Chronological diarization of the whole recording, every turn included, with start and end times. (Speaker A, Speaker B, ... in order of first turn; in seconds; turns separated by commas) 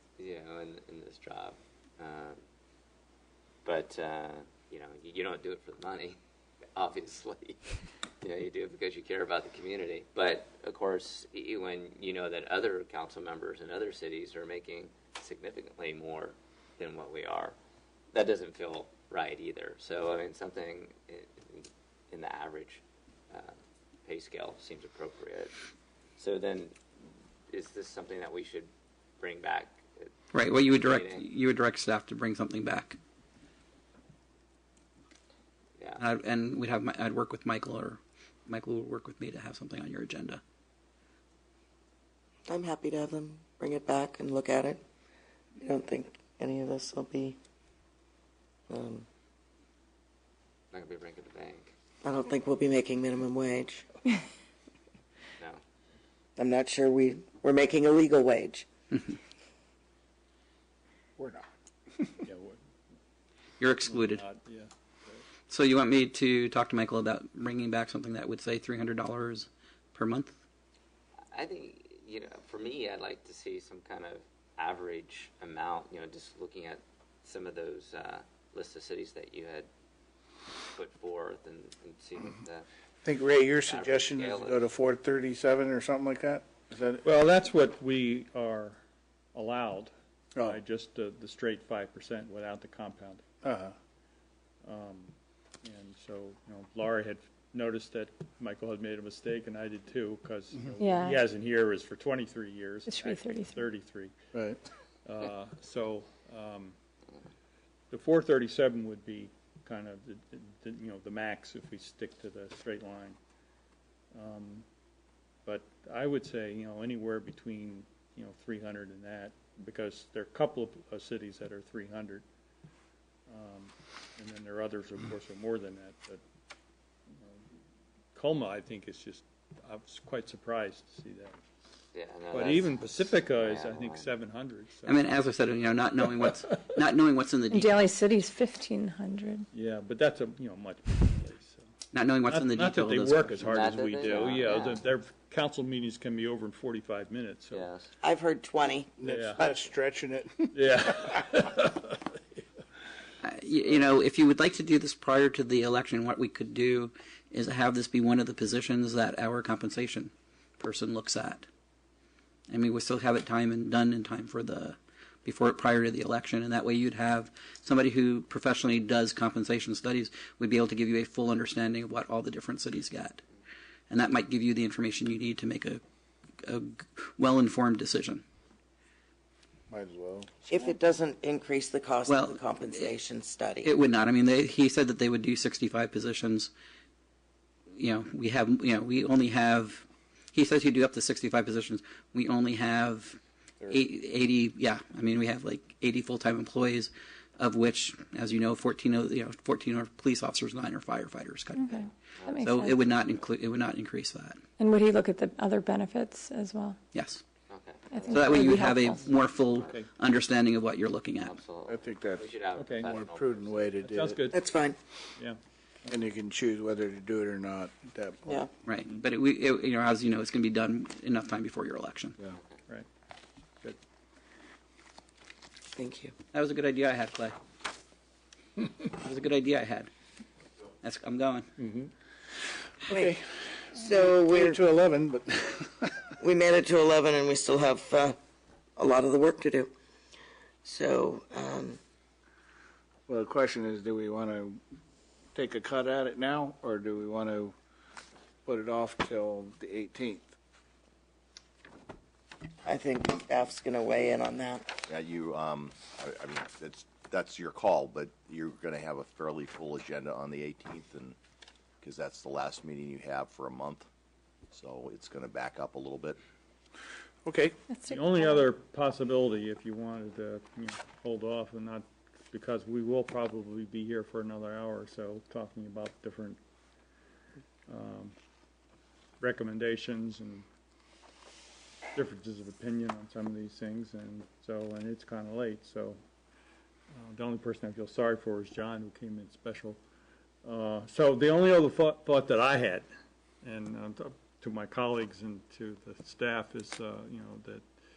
Speaker A: 0.2-2.4, Speaker A: 3.6-6.2, Speaker A: 6.8-7.6, Speaker A: 8.2-17.6, Speaker A: 18.1-25.6, Speaker A: 26.2-26.8, Speaker A: 27.5-31.2, Speaker B: 30.3-33.0, Speaker A: 35.8-36.0, Speaker B: 36.0-40.4, Speaker C: 42.5-44.8, Speaker C: 45.6-47.4, Speaker C: 48.7-49.0, Speaker A: 50.7-51.7, Speaker C: 52.0-53.9, Speaker C: 56.4-58.7, Speaker D: 61.2-61.5, Speaker E: 62.2-62.6, Speaker B: 63.6-64.2, Speaker E: 63.9-64.7, Speaker B: 65.5-70.4, Speaker A: 71.3-79.7, Speaker A: 80.8-82.7, Speaker D: 83.0-87.0, Speaker A: 83.7-84.6, Speaker E: 87.0-88.8, Speaker E: 89.3-93.2, Speaker D: 93.4-93.7, Speaker E: 94.6-95.1, Speaker E: 95.6-104.1, Speaker F: 100.8-101.2, Speaker F: 102.9-103.6, Speaker D: 104.3-104.6, Speaker E: 105.0-106.8, Speaker E: 107.9-113.2, Speaker E: 114.1-114.7, Speaker E: 115.5-122.2, Speaker E: 123.3-126.2, Speaker E: 128.2-131.4, Speaker A: 131.9-132.8, Speaker E: 132.3-135.0, Speaker A: 133.3-134.1, Speaker B: 134.9-137.9, Speaker F: 137.5-139.5, Speaker E: 139.5-141.6, Speaker B: 141.9-143.6, Speaker E: 142.2-147.7, Speaker A: 143.4-144.8, Speaker A: 147.5-147.9, Speaker C: 148.0-148.9, Speaker D: 149.0-151.1, Speaker E: 149.1-149.4, Speaker E: 150.5-152.2, Speaker B: 153.2-161.5, Speaker B: 162.5-173.2, Speaker B: 173.9-175.8, Speaker B: 176.4-178.2, Speaker D: 179.7-180.3, Speaker C: 180.5-183.7, Speaker B: 182.1-182.8, Speaker B: 183.6-186.5, Speaker B: 187.8-201.9, Speaker F: 201.6-202.8, Speaker A: 202.2-203.2, Speaker B: 202.4-204.4, Speaker F: 204.6-206.8, Speaker B: 206.9-207.2, Speaker A: 207.5-208.3, Speaker F: 207.9-209.1, Speaker B: 208.1-211.4, Speaker A: 211.2-213.7, Speaker D: 211.7-212.3, Speaker E: 212.6-212.9, Speaker D: 212.8-214.3, Speaker E: 213.8-214.3, Speaker C: 214.3-214.8, Speaker E: 215.2-216.0, Speaker D: 215.9-218.4, Speaker B: 218.7-222.2, Speaker C: 225.8-226.1, Speaker B: 226.3-227.4, Speaker B: 228.8-229.9, Speaker B: 230.8-231.5, Speaker E: 231.6-231.9, Speaker D: 232.8-233.2, Speaker C: 232.9-233.1, Speaker C: 233.8-234.6, Speaker D: 233.8-236.1, Speaker C: 236.2-238.2, Speaker C: 238.8-239.7, Speaker C: 240.6-241.8, Speaker D: 243.1-244.6, Speaker D: 245.3-247.6, Speaker D: 248.5-250.4, Speaker C: 252.7-254.8, Speaker G: 254.9-261.2, Speaker G: 261.8-263.9, Speaker G: 264.5-266.2, Speaker D: 267.2-267.6, Speaker F: 267.7-268.5, Speaker E: 267.9-276.4, Speaker E: 277.7-278.1, Speaker E: 279.2-280.4, Speaker E: 281.9-286.0, Speaker E: 286.9-289.8, Speaker E: 290.4-292.9, Speaker E: 293.4-297.6